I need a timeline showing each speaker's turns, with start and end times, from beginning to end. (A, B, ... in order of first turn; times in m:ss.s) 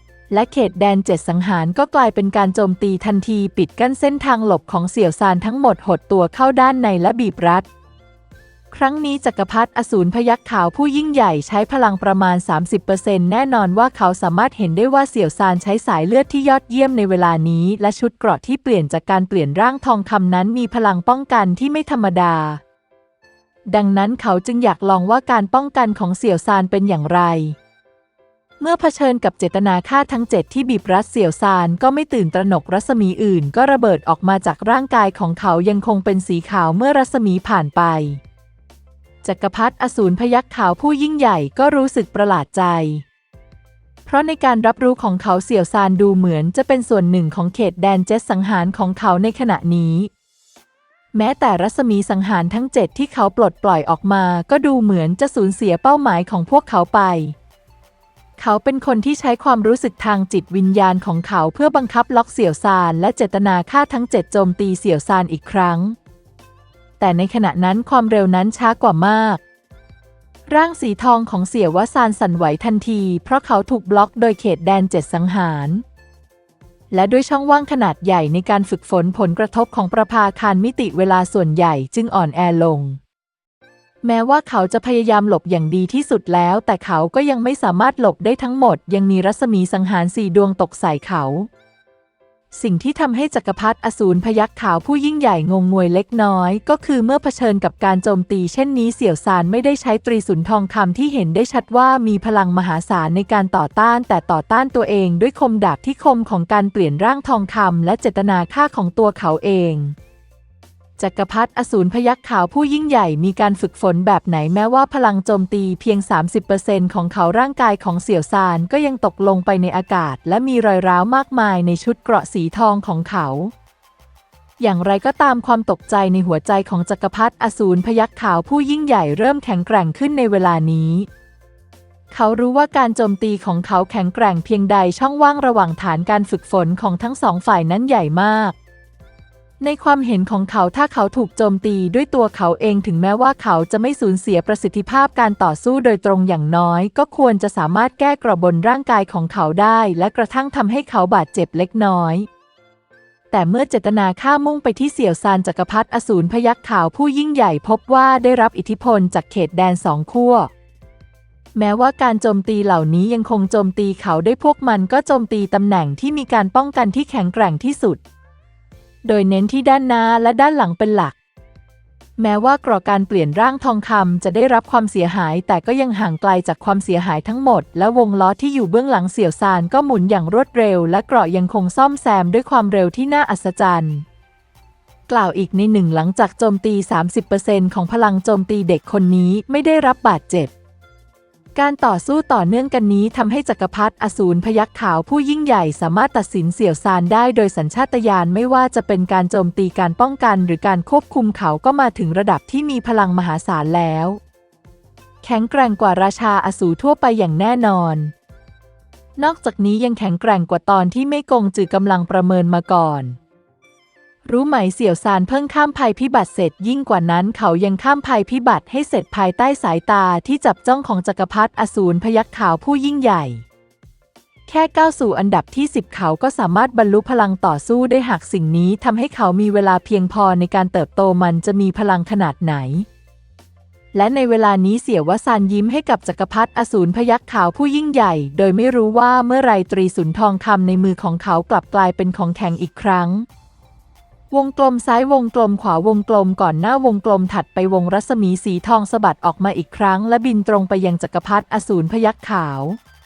0:00.3-0:07.7 A
0:08.7-0:22.6 A
0:23.7-0:27.6 A
0:28.6-0:38.2 A
0:39.2-0:43.0 A
0:44.1-0:50.1 A
0:51.1-0:57.4 A
0:58.4-1:06.0 A
1:07.0-1:09.4 A
1:10.5-1:15.8 A
1:16.9-1:23.0 A
1:24.0-1:31.5 A
1:32.5-1:50.0 A
1:51.0-2:03.5 A
2:04.6-2:11.1 A
2:12.1-2:18.6 A
2:19.6-2:32.3 A
2:33.3-2:40.5 A
2:41.6-2:48.0 A
2:49.0-2:51.2 A
2:52.2-3:04.0 A
3:05.1-3:10.5 A
3:11.6-3:24.2 A
3:25.2-3:28.1 A
3:29.2-3:33.2 A
3:34.2-3:43.4 A
3:44.5-3:52.9 A
3:53.9-4:03.3 A
4:04.3-4:12.8 A